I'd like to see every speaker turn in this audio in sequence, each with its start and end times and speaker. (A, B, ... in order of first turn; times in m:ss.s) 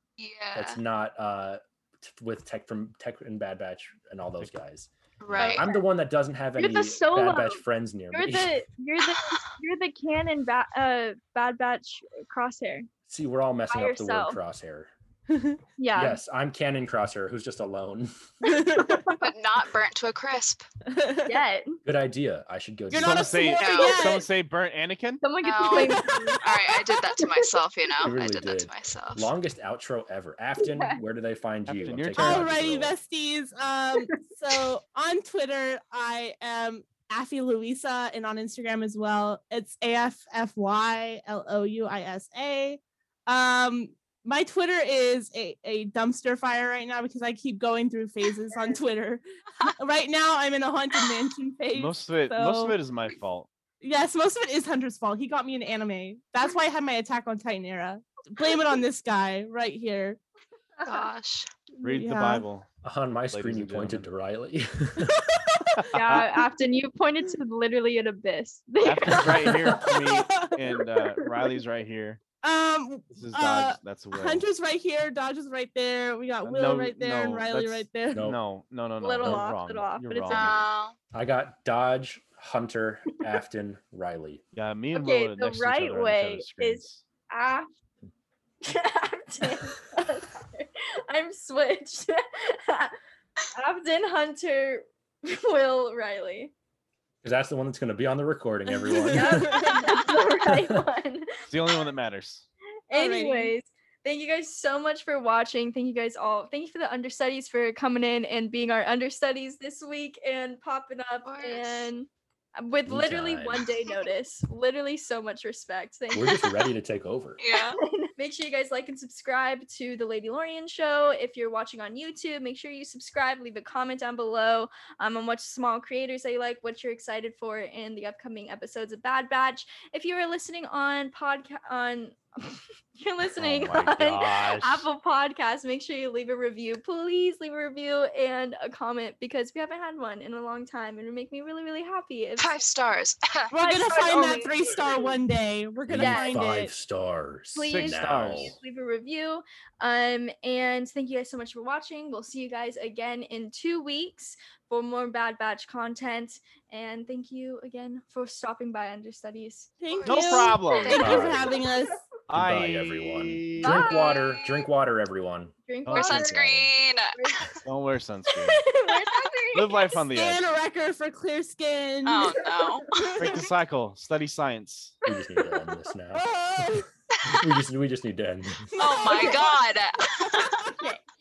0:00.2-0:00.8 A
0:00.5-0:08.6 B
0:05.2-0:05.7 A
0:05.4-0:05.8 C
0:06.6-0:12.9 C
0:09.2-0:09.4 A
0:13.1-0:14.9 B
0:13.7-0:14.4 C
0:15.3-0:15.6 D
0:15.8-0:16.2 C
0:15.9-0:18.1 B
0:18.4-0:19.2 D
0:18.4-0:19.2 C
0:19.2-0:20.6 A
0:20.9-0:21.4 D
0:21.2-0:21.8 C
0:21.8-0:23.4 B
0:22.9-0:24.3 D
0:22.9-0:25.2 E
0:23.6-0:24.1 A
0:25.2-0:27.4 C
0:25.4-0:29.3 A
0:25.7-0:26.5 D
0:28.0-0:32.9 B
0:30.6-0:31.0 C
0:31.7-0:32.9 E
0:32.2-0:52.8 D
0:34.0-0:34.6 C
0:51.7-0:53.5 E
0:53.8-1:00.2 D
1:00.8-1:01.0 C
1:00.8-1:01.5 A
1:01.8-1:02.4 D
1:01.8-1:02.6 E
1:02.8-1:05.3 B
1:03.3-1:04.1 E
1:05.3-1:05.6 D
1:05.8-1:06.4 E
1:05.9-1:09.8 C
1:08.8-1:12.2 E
1:09.7-1:10.6 D
1:11.0-1:11.5 C
1:12.4-1:18.3 D
1:13.1-1:14.4 E
1:16.4-1:20.5 E
1:18.1-1:18.4 B
1:19.0-1:20.6 C
1:20.3-1:20.9 A
1:21.1-1:24.4 B
1:24.5-1:27.0 E
1:24.9-1:27.7 C
1:28.6-1:32.9 C
1:33.5-1:36.5 C
1:37.2-1:39.8 B
1:38.9-1:40.0 D
1:38.9-1:41.5 C
1:40.4-1:40.8 B
1:41.5-1:42.4 E
1:42.9-1:56.7 C
1:42.9-1:43.5 D
1:51.2-1:51.9 A
1:52.9-1:53.7 B
1:56.1-1:57.4 B
1:57.4-1:57.8 A
1:57.6-2:22.6 C
2:13.4-2:14.9 E
2:22.4-2:23.5 A
2:23.5-2:26.7 D
2:23.5-2:25.2 C
2:25.9-2:28.5 B
2:25.9-2:26.4 C
2:27.5-2:39.7 C
2:27.7-2:28.6 E
2:39.8-2:42.0 D
2:39.9-2:41.0 A
2:40.0-2:41.2 E
2:40.4-2:41.9 C
2:41.0-2:41.6 B
2:42.3-2:43.9 E
2:42.3-2:46.7 B
2:43.6-2:44.5 C
2:45.7-2:46.4 C
2:45.8-2:46.2 E
2:45.9-2:47.5 A
2:47.1-2:47.6 C
2:47.6-2:48.6 E
2:48.4-2:50.1 C
2:48.9-2:49.3 A
2:49.5-2:50.4 E
2:50.1-2:53.5 D
2:52.0-2:53.4 A
2:53.2-2:55.0 E
2:55.0-2:56.3 B
2:56.1-2:56.9 D
2:57.2-2:58.7 B
2:58.7-2:59.6 D
2:58.8-3:00.8 A
3:00.2-3:00.7 D
3:00.8-3:01.0 C